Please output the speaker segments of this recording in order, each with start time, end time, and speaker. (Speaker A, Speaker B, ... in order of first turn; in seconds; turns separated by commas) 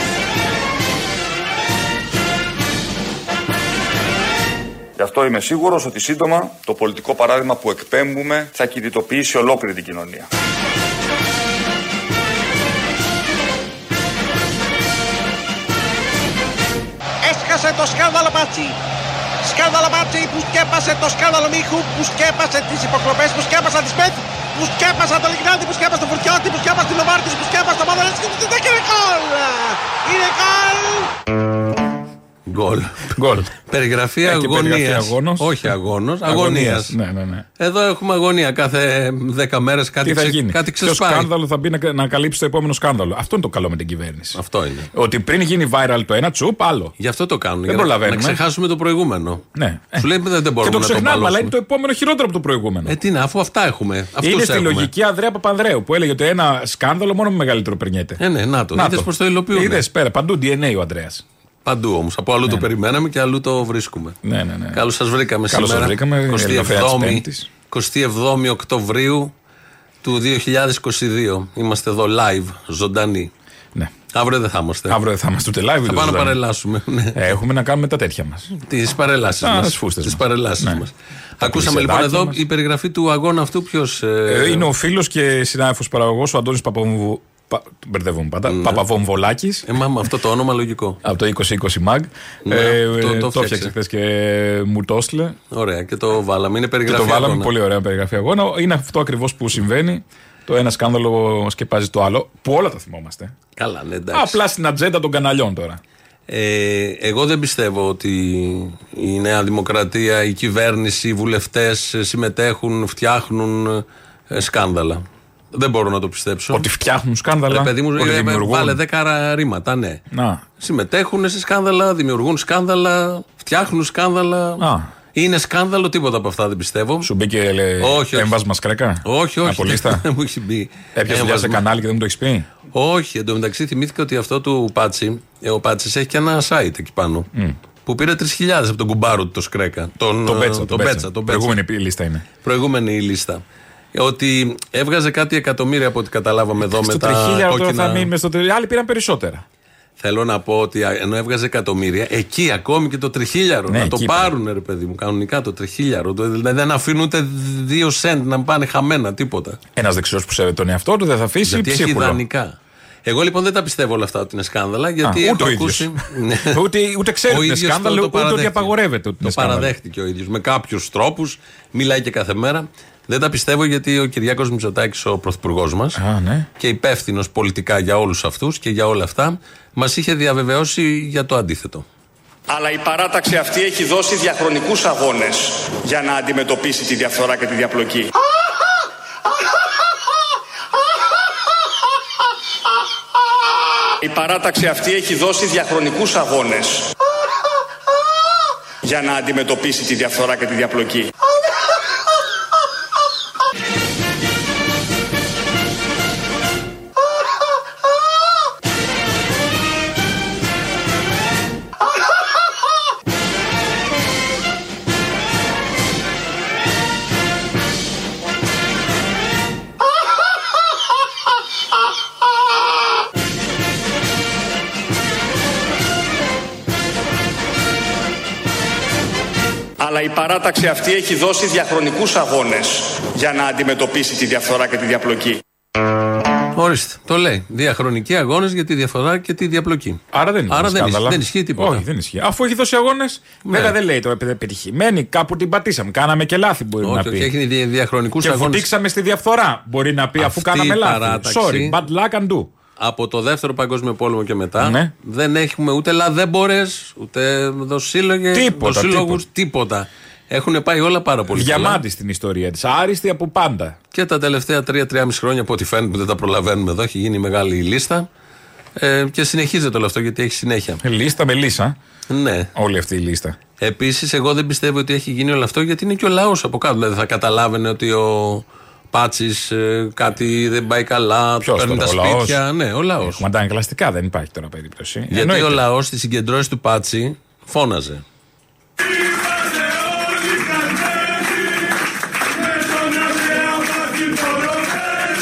Speaker A: 5.0-10.3, Speaker B: 17.2-18.8, Speaker B: 19.4-31.1, Speaker C: 32.5-36.9, Speaker D: 33.1-33.5, Speaker D: 34.2-35.7, Speaker D: 36.2-37.4, Speaker C: 37.6-41.3, Speaker D: 40.0-44.4, Speaker C: 44.3-44.9, Speaker D: 44.9-46.9, Speaker C: 47.0-49.4, Speaker D: 47.6-48.4, Speaker D: 49.5-50.1, Speaker C: 50.0-51.5, Speaker D: 50.6-52.9, Speaker C: 52.9-54.9, Speaker D: 54.2-58.2, Speaker C: 58.2-59.8, Speaker D: 58.7-61.2, Speaker C: 61.6-64.2, Speaker D: 64.2-64.8, Speaker C: 64.7-69.3, Speaker D: 65.5-67.5, Speaker C: 70.0-73.3, Speaker C: 74.1-75.0, Speaker D: 74.9-76.3, Speaker C: 75.8-77.2, Speaker D: 77.1-78.5, Speaker C: 78.5-84.7, Speaker D: 79.4-80.8, Speaker D: 81.4-82.4, Speaker D: 84.3-89.6, Speaker C: 88.5-88.8, Speaker C: 89.7-91.0, Speaker D: 91.0-95.3, Speaker C: 92.5-93.7, Speaker C: 95.5-97.5, Speaker D: 96.8-103.3, Speaker C: 103.5-104.4, Speaker D: 104.1-105.8, Speaker C: 106.3-116.7, Speaker D: 116.5-118.8, Speaker C: 117.5-120.0, Speaker D: 120.1-120.4, Speaker C: 120.6-127.1, Speaker D: 124.6-124.9, Speaker D: 127.0-130.0, Speaker C: 127.8-128.3, Speaker C: 129.0-131.6, Speaker D: 130.9-132.5, Speaker C: 132.7-137.3, Speaker C: 137.8-141.5, Speaker D: 140.2-142.2, Speaker C: 142.4-143.4, Speaker C: 143.9-148.1, Speaker D: 146.6-149.4, Speaker C: 150.0-159.6, Speaker D: 153.7-154.3, Speaker D: 159.7-162.2, Speaker C: 161.4-166.5, Speaker D: 165.0-169.7, Speaker C: 167.3-176.0, Speaker D: 175.9-176.5, Speaker C: 176.6-181.8, Speaker E: 182.5-188.1, Speaker E: 194.0-196.9, Speaker E: 198.8-201.1, Speaker E: 229.8-235.4, Speaker C: 236.5-241.8, Speaker D: 240.1-247.3, Speaker C: 243.4-243.7, Speaker C: 246.8-248.7, Speaker D: 248.2-252.5, Speaker C: 250.2-251.8, Speaker C: 252.8-261.8, Speaker D: 254.6-254.9, Speaker D: 258.3-259.2, Speaker D: 261.3-263.8, Speaker C: 263.9-268.1, Speaker C: 268.8-270.8, Speaker D: 270.8-271.8, Speaker C: 272.1-272.5, Speaker D: 272.5-273.4, Speaker C: 273.6-283.2, Speaker D: 281.4-282.4, Speaker D: 283.1-285.6, Speaker C: 285.1-288.0